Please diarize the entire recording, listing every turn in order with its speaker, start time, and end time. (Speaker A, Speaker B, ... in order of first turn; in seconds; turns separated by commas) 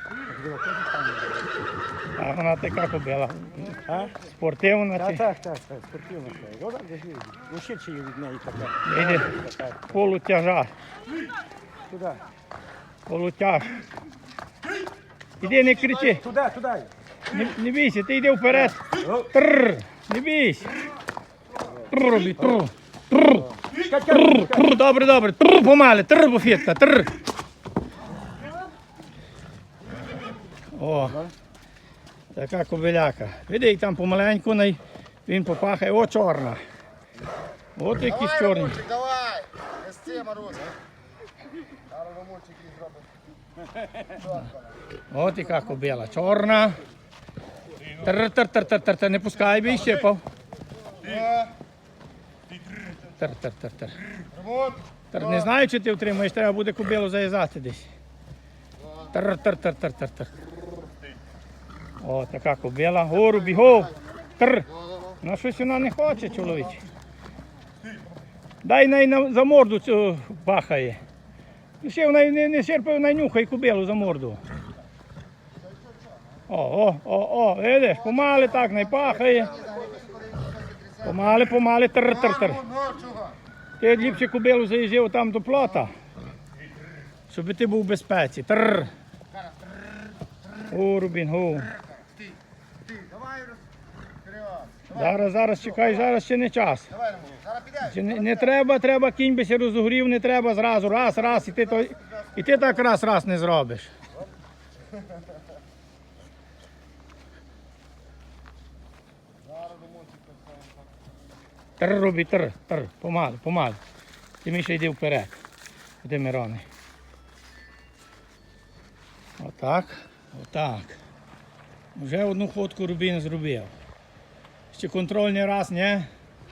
Speaker A: 0.2-1.5, Speaker B: 2.2-5.3, Speaker A: 3.9-4.1, Speaker A: 5.0-9.9, Speaker B: 8.8-9.3, Speaker B: 9.9-10.7, Speaker A: 11.9-12.2, Speaker B: 13.1-13.8, Speaker B: 15.4-16.2, Speaker A: 16.0-16.9, Speaker B: 17.3-20.7, Speaker A: 18.5-19.3, Speaker B: 21.9-23.5, Speaker A: 23.7-24.8, Speaker B: 24.1-27.1, Speaker B: 30.8-31.3, Speaker B: 32.3-36.6, Speaker B: 37.8-38.9, Speaker C: 38.6-40.6, Speaker C: 42.0-42.9, Speaker B: 45.1-46.8, Speaker B: 48.0-50.2, Speaker B: 53.2-54.0, Speaker B: 55.1-57.9, Speaker B: 59.1-60.3, Speaker B: 62.0-64.7, Speaker B: 65.2-66.8, Speaker B: 68.6-71.0, Speaker B: 71.8-74.4, Speaker B: 76.5-79.6, Speaker C: 79.6-81.0, Speaker B: 81.0-82.7, Speaker C: 82.8-83.2, Speaker B: 83.8-85.9, Speaker B: 87.3-88.9, Speaker B: 90.7-91.7, Speaker C: 92.9-93.5, Speaker C: 94.4-94.8, Speaker B: 94.9-96.9, Speaker C: 97.1-97.8, Speaker B: 97.8-103.9, Speaker B: 111.8-113.8, Speaker B: 114.4-115.4, Speaker B: 116.0-116.7, Speaker B: 119.4-121.0, Speaker B: 122.0-123.7, Speaker B: 124.7-126.1